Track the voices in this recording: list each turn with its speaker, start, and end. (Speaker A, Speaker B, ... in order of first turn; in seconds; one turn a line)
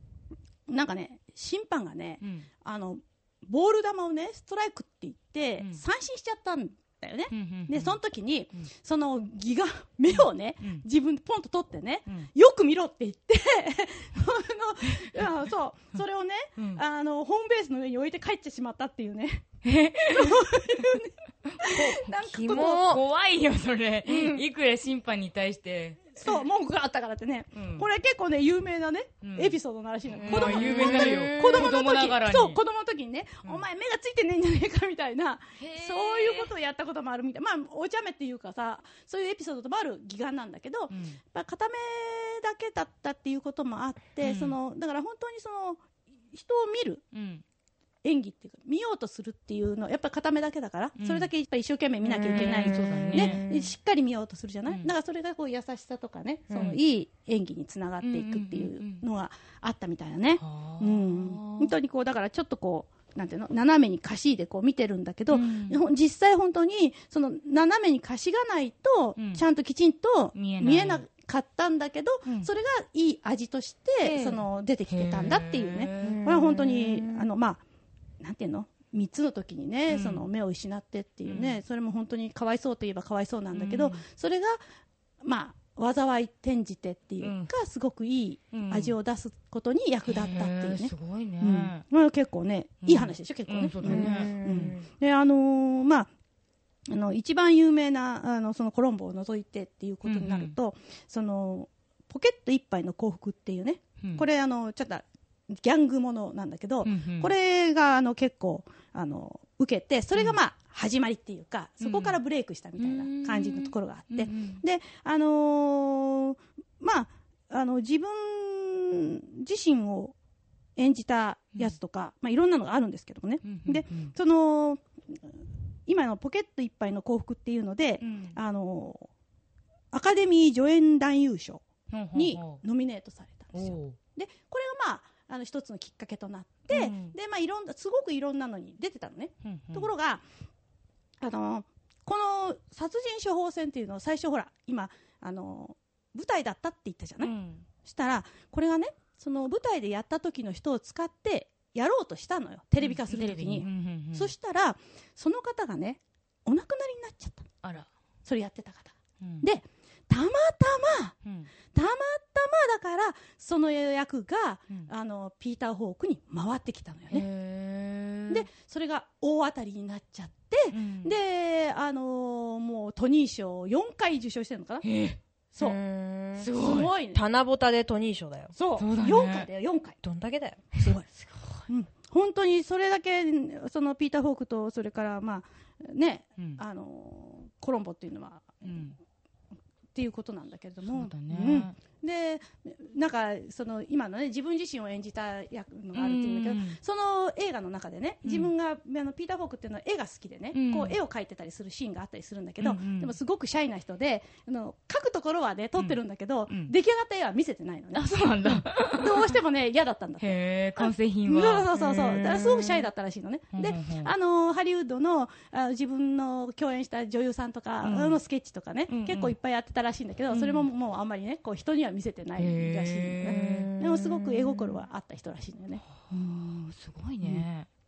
Speaker A: 0.7-19.4
Speaker B: 2.2-2.5
Speaker B: 7.3-8.0
Speaker B: 10.1-10.8
Speaker B: 14.9-15.2
Speaker B: 16.6-16.8
Speaker B: 19.6-22.0
Speaker A: 20.1-22.9
Speaker C: 22.2-23.0
Speaker B: 22.6-26.3
Speaker A: 24.1-24.4
Speaker A: 26.2-45.8
Speaker B: 27.5-27.9
Speaker B: 29.2-29.6
Speaker C: 30.2-31.7
Speaker B: 30.2-32.6
Speaker B: 35.6-36.5
Speaker B: 40.9-41.2
Speaker B: 44.2-44.5
Speaker A: 46.3-47.0
Speaker B: 47.1-47.4
Speaker A: 48.0-77.6
Speaker B: 51.0-51.3
Speaker B: 52.0-53.4
Speaker C: 52.2-53.7
Speaker B: 54.7-54.9
Speaker C: 56.5-56.8
Speaker B: 58.0-59.0
Speaker B: 60.4-61.8
Speaker B: 65.3-65.8
Speaker B: 69.2-69.4
Speaker B: 70.3-71.0
Speaker B: 72.3-72.5
Speaker B: 74.0-76.3
Speaker C: 76.0-77.3
Speaker A: 78.2-84.6
Speaker B: 79.9-80.3
Speaker B: 81.3-81.6
Speaker B: 83.5-84.0
Speaker A: 85.2-96.1
Speaker B: 87.2-87.5
Speaker B: 88.5-89.0
Speaker B: 90.0-91.8
Speaker B: 92.8-94.8
Speaker C: 93.8-94.8
Speaker A: 96.9-120.2
Speaker B: 100.0-100.5
Speaker B: 106.8-107.3
Speaker B: 111.8-112.2
Speaker B: 112.8-114.6
Speaker A: 120.8-125.2
Speaker B: 123.4-124.1
Speaker A: 125.9-129.1
Speaker B: 128.0-128.4
Speaker A: 129.9-140.2
Speaker B: 131.9-132.6
Speaker B: 133.5-134.0
Speaker B: 136.7-137.2
Speaker B: 139.4-139.9
Speaker A: 141.2-147.3
Speaker B: 147.2-147.7
Speaker A: 147.8-157.5
Speaker B: 152.8-154.3
Speaker B: 157.6-157.9
Speaker A: 158.2-161.2
Speaker B: 159.2-159.5
Speaker A: 161.7-167.3
Speaker B: 167.1-168.5
Speaker A: 168.3-174.9
Speaker B: 170.7-171.2
Speaker B: 174.8-175.2
Speaker C: 175.6-178.5
Speaker B: 176.4-176.9
Speaker A: 176.5-177.2
Speaker A: 178.6-180.0
Speaker B: 178.8-179.5
Speaker C: 180.0-180.8
Speaker A: 180.8-181.1
Speaker B: 181.2-181.6
Speaker A: 181.7-188.8
Speaker B: 188.6-189.0
Speaker A: 189.9-225.8
Speaker B: 190.8-191.8
Speaker B: 195.9-196.8
Speaker B: 198.2-198.5
Speaker B: 200.5-201.0
Speaker B: 202.6-203.2
Speaker B: 205.8-206.7
Speaker B: 207.9-209.4
Speaker B: 210.2-212.7
Speaker B: 213.5-214.1
Speaker B: 217.8-218.2
Speaker B: 218.9-219.4
Speaker B: 220.3-220.7
Speaker B: 222.4-223.7
Speaker C: 223.3-224.3
Speaker B: 226.0-227.7